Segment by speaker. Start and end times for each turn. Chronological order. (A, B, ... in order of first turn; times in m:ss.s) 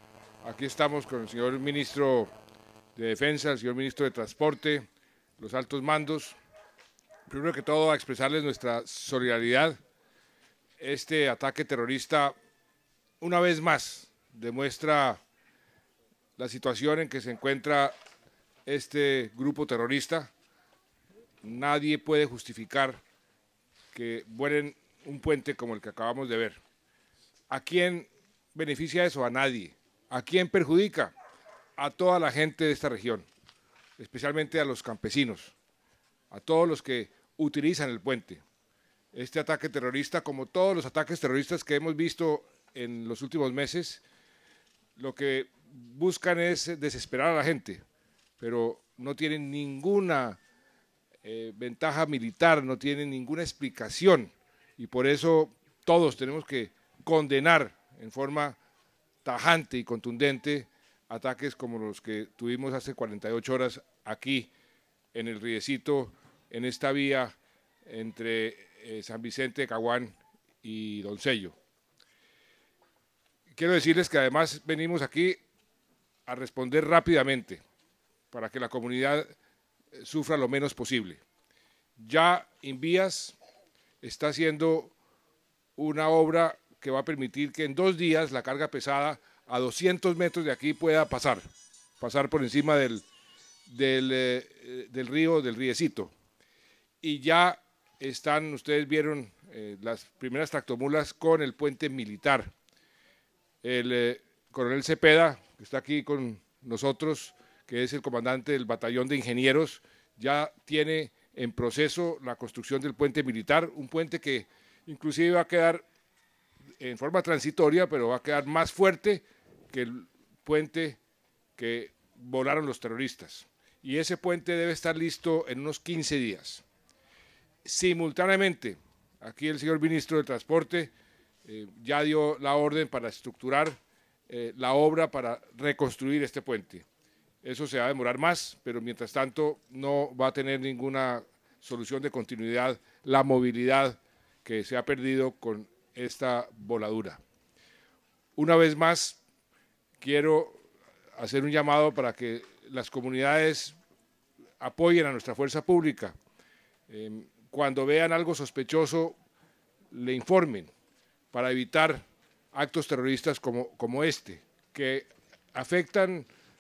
0:00.4-0:02.3 A
0:03.0-0:06.4 A
0:07.3-0:09.8 A
0:10.8-0:12.4 A
0:13.2-0:15.2 A
0:16.4-0:18.0 A
0:18.7-0:20.3 A
0:21.4-0:23.0 A
0:23.9-0:26.6 A
0:27.5-0:31.1 A
0:31.8-0:33.3 A
0:34.0-0:35.6 A
0:36.3-0:38.4 A
0:39.1-0:44.0 A
0:45.0-0:47.8 A
0:48.4-0:50.4 A
0:51.2-0:58.6 A
0:59.2-1:04.5 A
1:05.1-1:11.6 A
1:13.5-1:15.4 A
1:16.3-1:17.6 A
1:18.3-1:19.3 A
1:19.9-1:21.2 A
1:22.0-1:23.4 A
1:24.0-1:24.9 A
1:25.8-1:31.4 A
1:32.0-1:33.0 A
1:33.7-1:36.1 A
1:37.0-1:42.5 A
1:43.6-1:55.8 A
1:56.8-2:01.0 A
2:01.6-2:06.6 A
2:07.6-2:10.9 A
2:11.4-2:13.8 A
2:14.3-2:16.9 A
2:17.4-2:27.2 A
2:28.4-2:29.2 A
2:30.0-2:30.6 A
2:31.2-2:33.8 A
2:34.6-2:36.2 A
2:36.9-2:39.2 A
2:39.9-2:40.7 A
2:41.3-2:46.3 A